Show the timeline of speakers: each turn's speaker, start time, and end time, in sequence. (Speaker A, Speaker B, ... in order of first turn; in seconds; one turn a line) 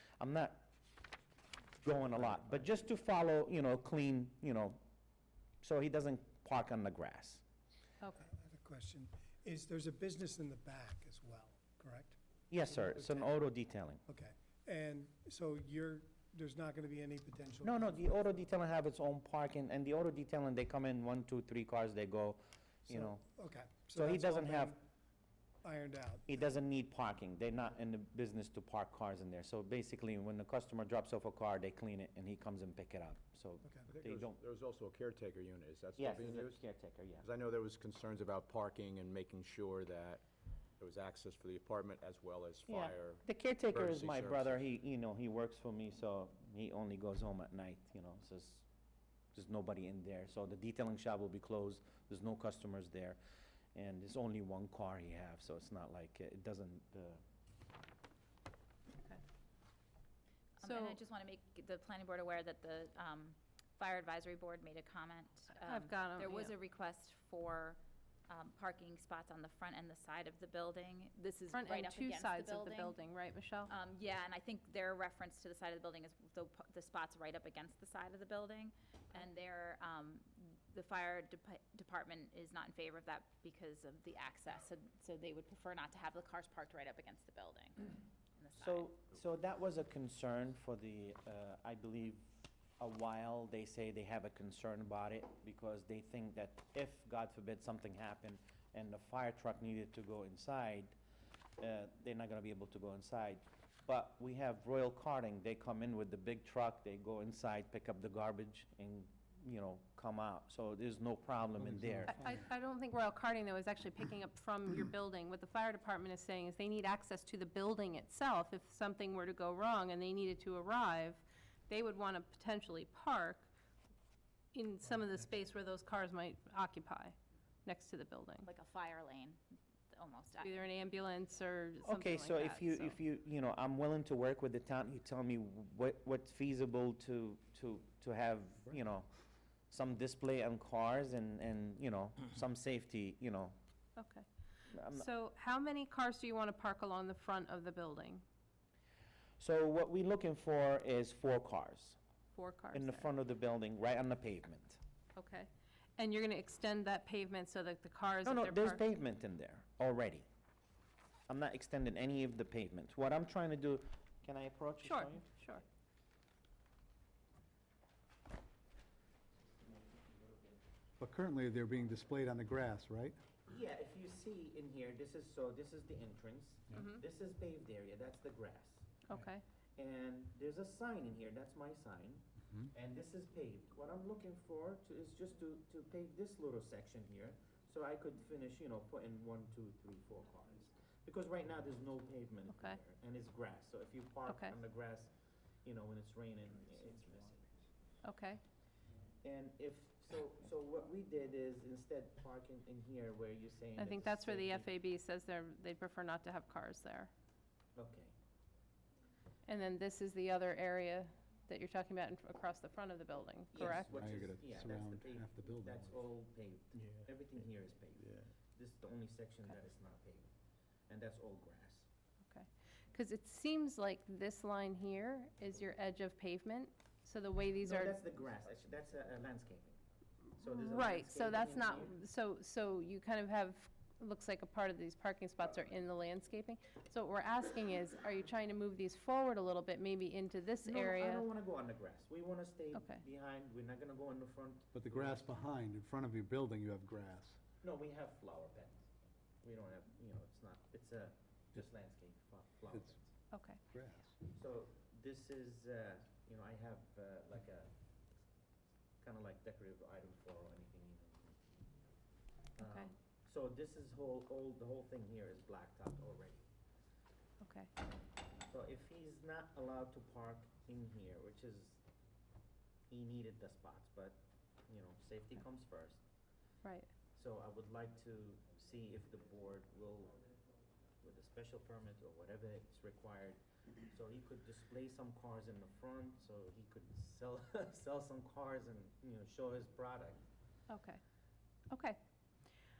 Speaker A: 0.2-0.7
Speaker A: 1.8-4.8
Speaker A: 5.6-7.4
Speaker B: 8.0-8.3
Speaker C: 8.2-13.4
Speaker A: 12.5-14.0
Speaker C: 14.1-18.0
Speaker A: 17.6-23.2
Speaker C: 22.9-24.8
Speaker A: 23.9-24.8
Speaker C: 25.6-26.5
Speaker A: 26.3-34.4
Speaker C: 33.6-33.9
Speaker D: 33.9-36.6
Speaker A: 36.0-37.2
Speaker D: 37.2-40.2
Speaker D: 40.8-44.6
Speaker A: 42.7-48.7
Speaker A: 49.3-53.2
Speaker A: 53.8-57.2
Speaker E: 60.6-73.0
Speaker B: 60.6-61.0
Speaker B: 65.6-66.6
Speaker B: 71.5-73.7
Speaker E: 73.7-88.9
Speaker A: 88.5-92.3
Speaker A: 92.8-100.9
Speaker A: 101.6-112.2
Speaker F: 111.6-112.5
Speaker B: 112.1-123.5
Speaker B: 124.5-128.5
Speaker E: 128.4-130.6
Speaker B: 130.4-133.0
Speaker A: 131.8-139.1
Speaker A: 139.7-143.6
Speaker B: 144.0-144.3
Speaker A: 144.7-145.1
Speaker B: 144.9-148.2
Speaker A: 149.4-152.0
Speaker B: 152.3-153.1
Speaker A: 152.7-154.8
Speaker B: 155.2-158.8
Speaker A: 158.2-160.3
Speaker A: 161.3-165.6
Speaker B: 164.8-165.6
Speaker F: 171.0-173.2
Speaker A: 173.4-179.0
Speaker B: 176.7-177.0
Speaker B: 179.1-179.4
Speaker A: 179.8-195.1
Speaker B: 192.5-192.8
Speaker B: 194.3-194.6
Speaker A: 195.7-197.5
Speaker B: 198.0-198.4
Speaker A: 199.2-204.7
Speaker B: 203.8-207.1
Speaker A: 207.8-208.1
Speaker B: 209.5-213.9
Speaker A: 213.5-220.3
Speaker F: 213.9-216.0
Speaker A: 220.9-221.9
Speaker B: 222.3-228.0
Speaker A: 227.6-229.8
Speaker A: 230.4-231.9
Speaker B: 230.5-241.3
Speaker A: 240.6-245.3
Speaker B: 242.7-243.0
Speaker F: 244.7-247.4
Speaker A: 247.6-248.9
Speaker A: 249.4-253.1
Speaker B: 253.3-253.6
Speaker F: 253.7-254.1
Speaker A: 254.3-257.7
Speaker A: 259.0-261.4
Speaker A: 262.6-266.5
Speaker B: 262.6-262.9
Speaker B: 267.4-267.7
Speaker A: 268.5-271.8
Speaker A: 272.9-276.0
Speaker B: 276.6-276.9
Speaker A: 277.1-280.2
Speaker A: 281.0-290.2
Speaker B: 290.7-291.0
Speaker B: 291.7-292.0